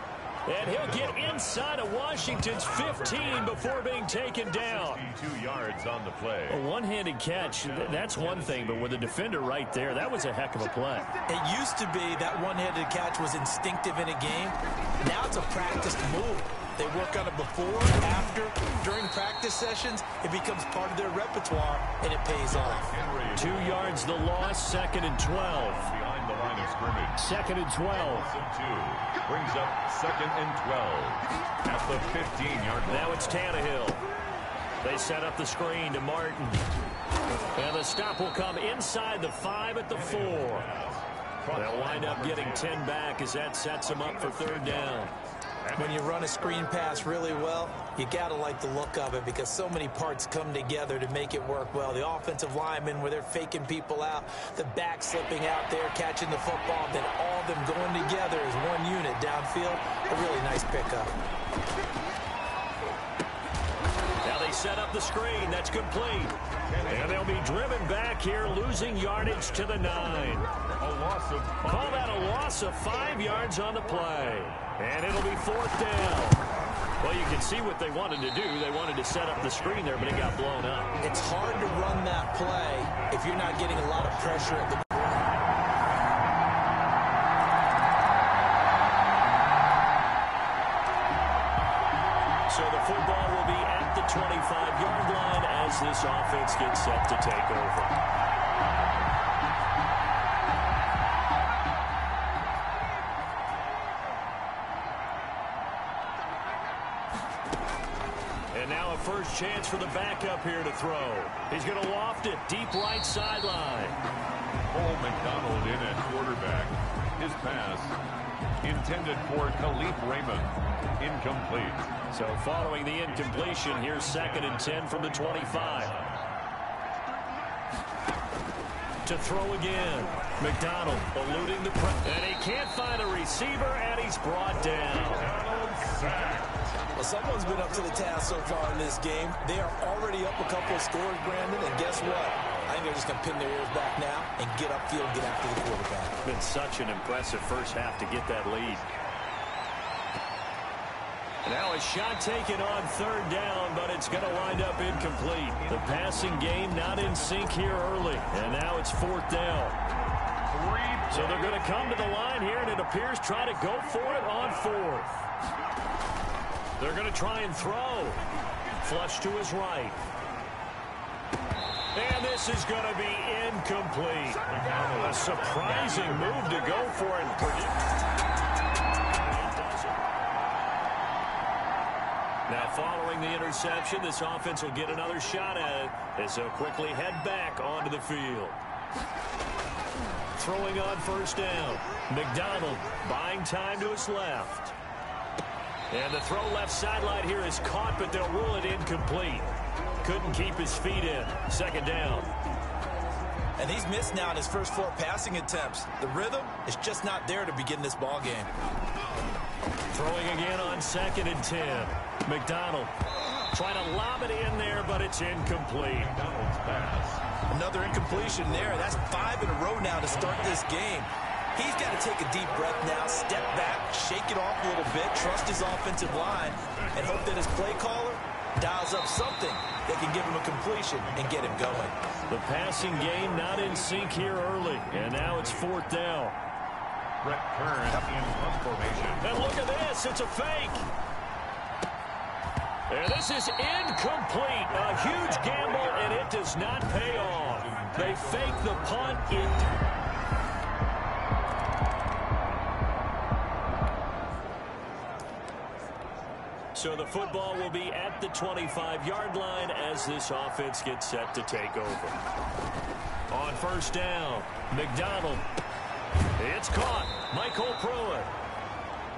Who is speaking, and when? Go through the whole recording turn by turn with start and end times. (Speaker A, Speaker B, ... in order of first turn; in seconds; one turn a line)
Speaker A: 0.5-5.0
Speaker B: 0.6-1.7
Speaker B: 2.2-3.7
Speaker B: 4.6-6.6
Speaker A: 6.5-11.1
Speaker B: 7.6-9.0
Speaker C: 11.3-22.9
Speaker B: 22.5-24.1
Speaker A: 23.4-25.9
Speaker B: 25.6-27.4
Speaker A: 27.2-28.3
Speaker B: 27.9-33.5
Speaker A: 32.9-34.0
Speaker A: 34.8-36.6
Speaker A: 37.5-40.7
Speaker B: 39.9-42.9
Speaker A: 41.5-45.1
Speaker B: 43.8-45.1
Speaker C: 45.8-61.1
Speaker A: 64.2-66.3
Speaker B: 66.7-67.6
Speaker A: 66.9-70.5
Speaker B: 70.8-72.4
Speaker A: 71.7-76.4
Speaker A: 77.0-81.0
Speaker B: 79.6-80.3
Speaker C: 81.0-84.8
Speaker A: 92.5-97.9
Speaker A: 108.5-114.0
Speaker B: 114.7-118.0
Speaker B: 118.6-121.9
Speaker A: 122.1-125.9
Speaker B: 123.1-126.2
Speaker A: 129.1-135.3
Speaker B: 134.7-136.7
Speaker C: 137.0-146.1
Speaker B: 141.9-142.8
Speaker A: 146.2-148.9
Speaker A: 151.4-159.8
Speaker B: 155.5-158.3
Speaker B: 160.5-162.4
Speaker A: 161.1-165.1
Speaker A: 166.8-168.2
Speaker A: 168.8-170.1
Speaker A: 171.9-177.9
Speaker B: 174.5-176.6
Speaker A: 179.3-180.0
Speaker A: 182.5-188.6
Speaker A: 190.4-194.7
Speaker A: 195.9-199.5
Speaker A: 200.0-202.3
Speaker C: 203.6-208.5
Speaker A: 209.9-212.9
Speaker A: 213.5-216.2
Speaker B: 216.0-217.2
Speaker C: 217.5-231.9
Speaker B: 218.2-219.2
Speaker B: 220.1-220.4
Speaker B: 226.0-227.6
Speaker B: 230.3-235.7
Speaker A: 232.3-236.4
Speaker B: 237.2-239.3
Speaker A: 239.2-240.9
Speaker A: 242.9-249.7
Speaker B: 245.0-246.3
Speaker B: 246.9-249.7
Speaker A: 256.8-262.2
Speaker A: 263.3-265.4
Speaker A: 266.4-268.3